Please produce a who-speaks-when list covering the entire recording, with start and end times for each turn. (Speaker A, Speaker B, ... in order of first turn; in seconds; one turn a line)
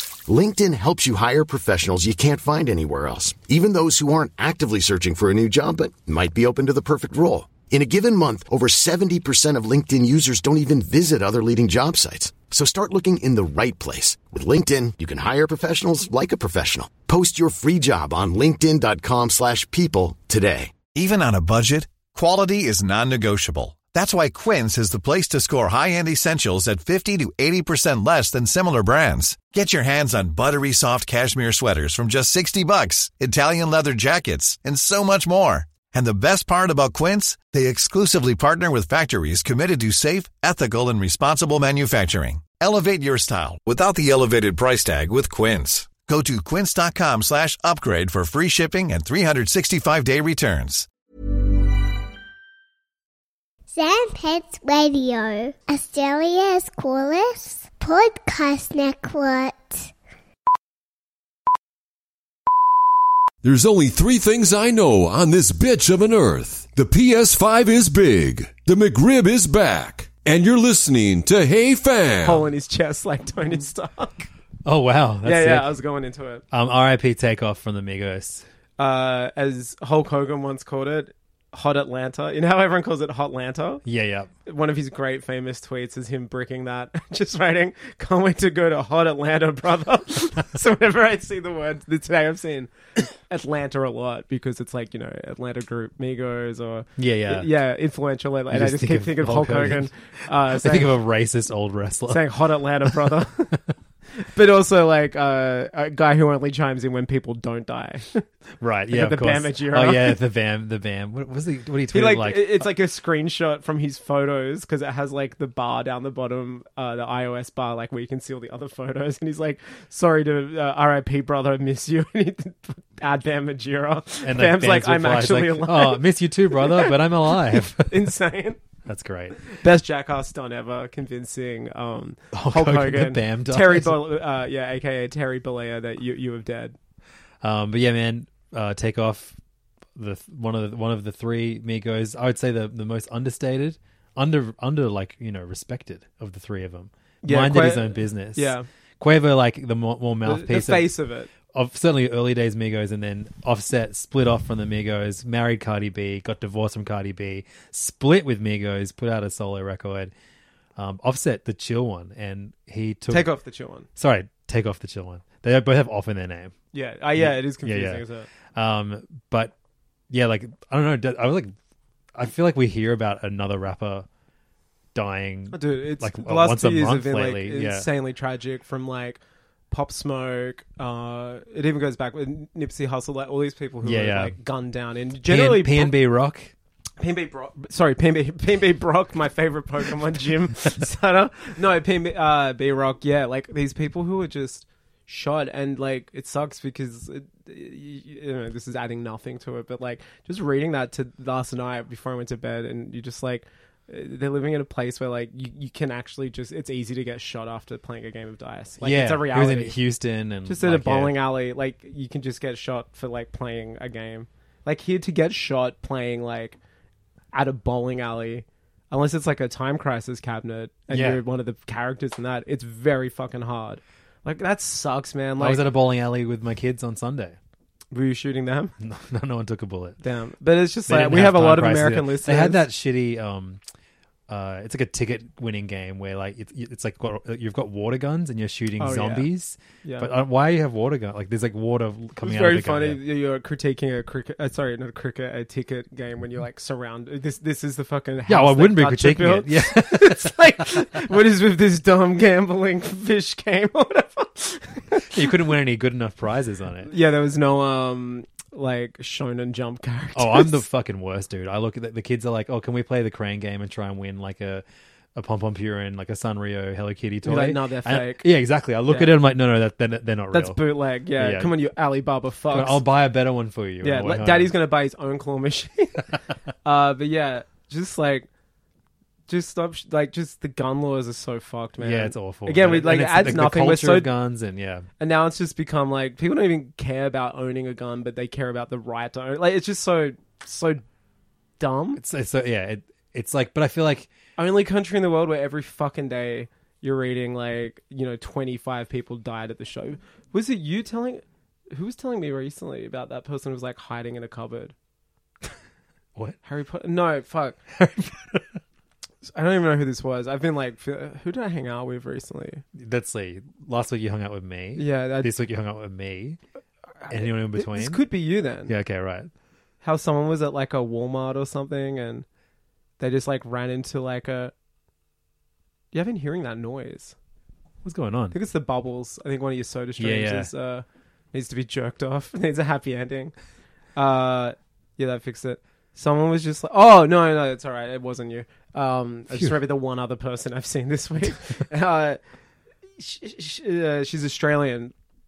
Speaker A: 0.3-20.7
Speaker B: 20.9-50.9
Speaker C: 53.7-59.9
Speaker D: 63.4-72.4
Speaker E: 72.2-74.3
Speaker F: 74.7-75.8
Speaker E: 75.2-76.4
Speaker F: 76.5-78.5
Speaker E: 78.8-83.8
Speaker F: 83.8-84.3
Speaker E: 84.5-101.0
Speaker F: 97.0-97.5
Speaker F: 98.5-99.9
Speaker F: 100.5-103.1
Speaker E: 102.1-103.5
Speaker E: 104.2-108.2
Speaker F: 108.6-112.7
Speaker E: 108.9-110.2
Speaker E: 111.9-128.6
Speaker F: 124.2-128.1
Speaker F: 128.9-129.4
Speaker E: 129.5-136.8
Speaker F: 132.3-134.0
Speaker F: 137.4-139.4
Speaker F: 139.9-150.9
Speaker E: 147.2-148.7
Speaker E: 150.2-151.3
Speaker F: 151.5-160.1
Speaker F: 160.8-163.3
Speaker E: 163.1-163.9
Speaker F: 164.0-166.5
Speaker E: 166.7-168.3
Speaker F: 167.2-168.0
Speaker F: 168.6-169.5
Speaker F: 170.1-171.5
Speaker F: 172.2-174.1
Speaker F: 174.9-177.9
Speaker E: 175.5-179.2
Speaker E: 179.7-185.9
Speaker F: 183.8-184.4
Speaker F: 185.3-186.5
Speaker E: 187.0-209.8
Speaker F: 208.8-211.2
Speaker E: 210.5-216.6
Speaker E: 217.3-225.6
Speaker F: 220.9-221.2
Speaker F: 225.4-227.4
Speaker E: 227.9-228.7
Speaker F: 228.8-230.0
Speaker E: 230.0-232.6
Speaker F: 230.9-233.6
Speaker F: 234.3-243.0
Speaker E: 238.8-239.3
Speaker E: 239.8-240.1
Speaker E: 242.2-255.3
Speaker F: 248.3-251.0
Speaker F: 255.1-256.9
Speaker E: 256.9-260.6
Speaker F: 260.1-264.6
Speaker F: 265.1-270.6
Speaker E: 267.2-268.3
Speaker E: 268.9-269.1
Speaker E: 270.3-272.8
Speaker F: 271.2-271.6
Speaker F: 272.5-274.5
Speaker E: 273.8-276.1
Speaker E: 276.6-278.3
Speaker E: 279.3-284.1
Speaker F: 281.8-284.9
Speaker E: 285.0-290.8
Speaker E: 291.6-292.0
Speaker F: 292.0-294.1
Speaker E: 294.4-304.7
Speaker E: 306.4-307.6
Speaker F: 307.7-308.6
Speaker E: 309.2-312.6
Speaker F: 312.8-316.4
Speaker E: 314.8-315.3
Speaker E: 317.0-318.7
Speaker F: 317.1-318.0
Speaker F: 318.7-319.3
Speaker E: 319.8-322.3
Speaker E: 323.0-324.5
Speaker E: 325.9-327.1
Speaker F: 327.8-328.4
Speaker E: 328.3-333.3
Speaker F: 330.0-330.5
Speaker E: 334.0-342.2
Speaker F: 339.3-339.6
Speaker E: 343.0-344.9